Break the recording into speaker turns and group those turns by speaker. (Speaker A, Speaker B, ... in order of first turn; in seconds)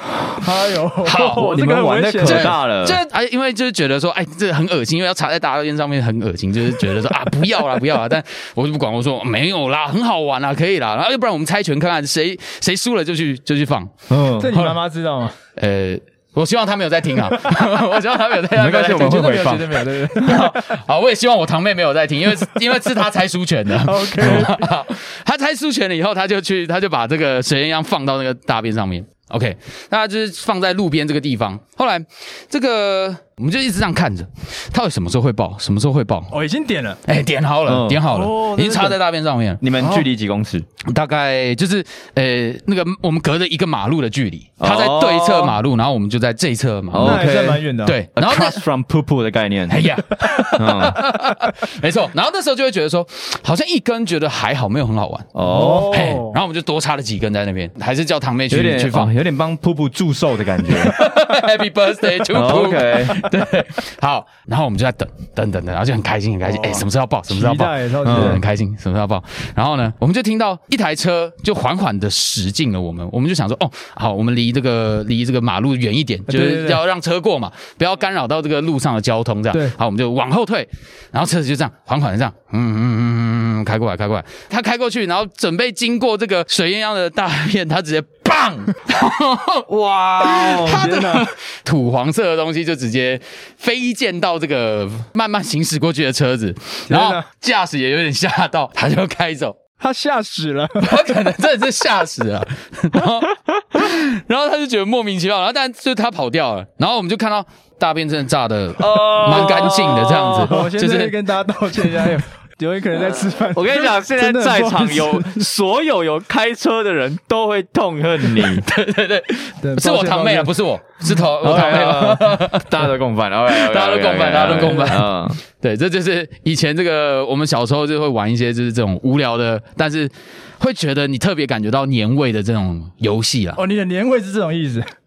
Speaker A: 0.3-2.5, 14.4-15.3, 18.9-20.8, 23.8-24.7, 36.3-37.0, 38.1-39.0, 39.8-40.1, 47.0-48.0, 55.4-56.4, 66.4-68.4, 76.3-76.8, 90.5-91.3, 96.9-97.2, 99.8-101.1, 109.3-115.5, 119.6-120.5, 133.6-134.9
Speaker B: 1.0-1.6, 2.2-13.9, 15.6-36.3, 37.0-39.6, 40.8-47.3, 47.8-48.6, 49.7-55.3, 55.9-59.1, 60.7-99.5, 100.8-111.2, 118.3-122.7, 123.5-133.6
Speaker C: 1.1-3.0, 14.1-14.6, 18.5-19.8, 24.2-24.5, 37.7-38.0, 39.6-40.7, 44.6-45.6, 46.9-47.6, 48.1-49.9, 50.5-51.0, 55.3-56.0, 58.5-61.0, 62.3-63.2, 68.0-68.4, 89.7-90.9, 108.8-110.5, 113.5-118.7, 121.4-125.4